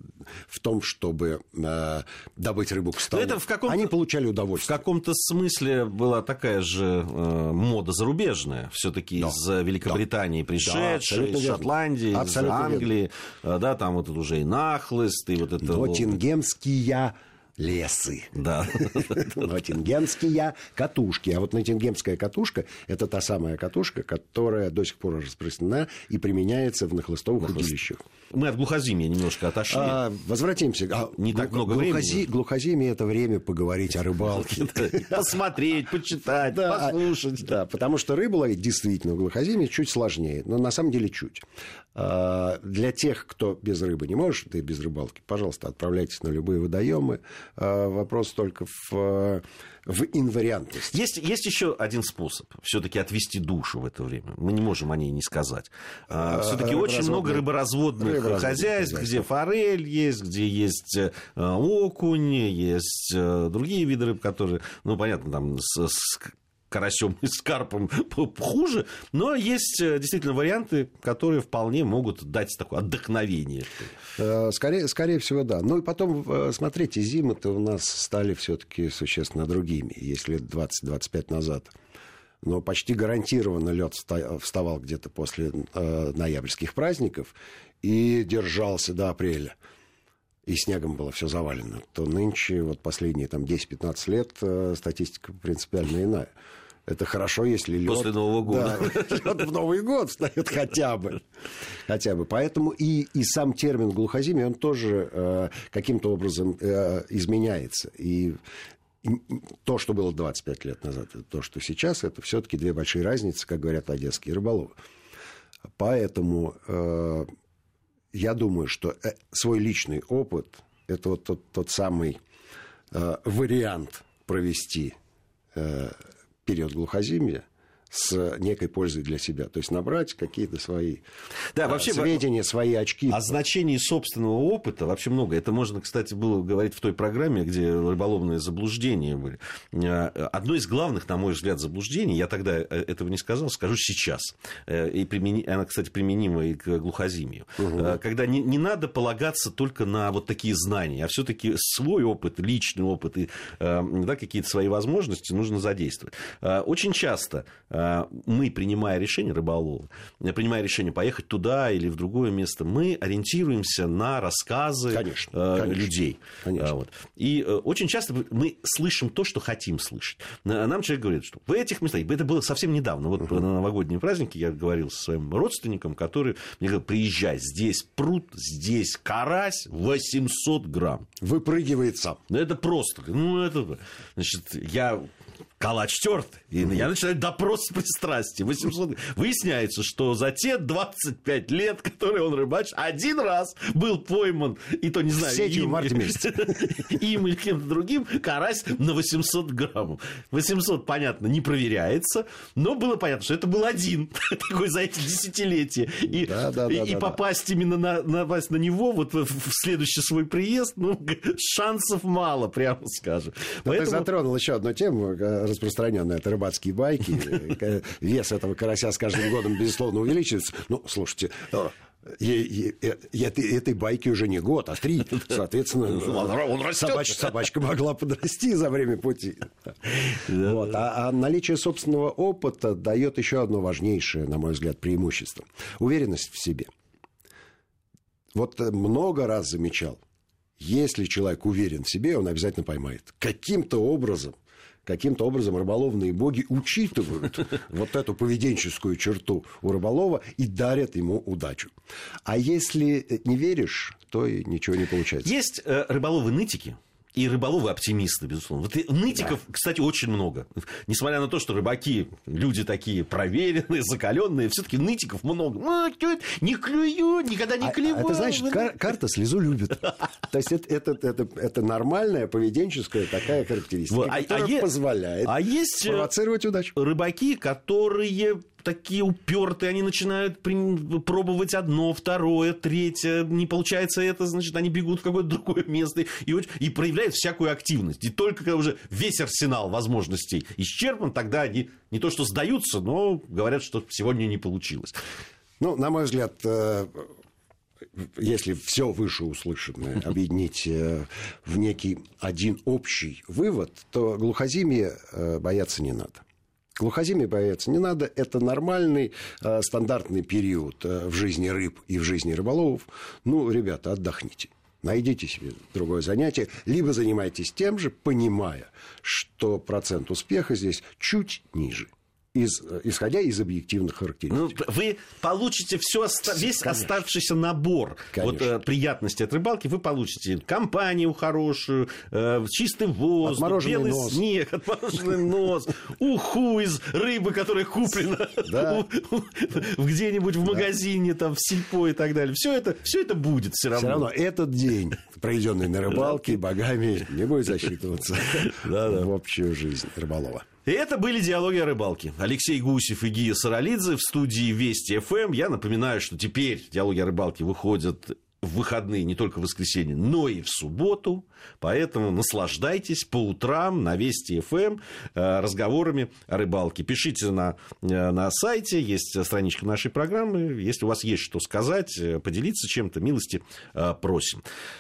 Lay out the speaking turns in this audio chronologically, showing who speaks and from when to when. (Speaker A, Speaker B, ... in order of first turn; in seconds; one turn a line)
Speaker A: 0.4-4.8
Speaker B: 3.1-3.9
Speaker B: 4.6-16.2
Speaker A: 9.2-10.0
Speaker A: 10.6-12.9
Speaker A: 15.6-28.0
Speaker B: 18.4-19.4
Speaker B: 28.3-30.0
Speaker A: 29.7-35.4
Speaker B: 31.2-32.2
Speaker B: 34.4-37.6
Speaker A: 36.5-50.9
Speaker B: 50.9-73.9
Speaker A: 56.1-59.2
Speaker A: 74.2-81.7
Speaker A: 82.4-89.5
Speaker A: 90.5-96.3
Speaker A: 96.9-101.2
Speaker B: 97.9-99.3
Speaker A: 101.9-108.4
Speaker A: 109.0-114.8
Speaker A: 115.8-117.3
Speaker A: 118.1-122.2
Speaker A: 122.9-124.9
Speaker A: 125.5-131.0
Speaker B: 131.6-132.2
Speaker A: 131.6-133.3
Speaker B: 133.1-181.1
Speaker A: 147.6-148.0
Speaker A: 164.9-166.7
Speaker A: 181.2-182.2
Speaker B: 182.3-185.1
Speaker B: 185.6-214.1
Speaker A: 195.2-196.2
Speaker A: 206.1-207.2
Speaker A: 213.7-229.5
Speaker B: 225.1-227.4
Speaker B: 229.9-230.6
Speaker A: 230.1-236.7
Speaker A: 238.3-240.0
Speaker A: 240.6-251.7
Speaker A: 252.3-255.3
Speaker B: 255.2-268.8
Speaker A: 267.6-276.7
Speaker B: 273.9-274.7
Speaker B: 275.2-276.1
Speaker B: 276.8-295.0
Speaker A: 295.6-297.1
Speaker A: 298.0-306.2
Speaker A: 306.8-324.6
Speaker B: 324.3-344.1
Speaker A: 326.3-327.0
Speaker A: 328.1-328.5
Speaker A: 333.2-334.2
Speaker A: 338.4-338.8
Speaker A: 343.7-350.4
Speaker B: 348.4-349.1
Speaker B: 350.6-374.4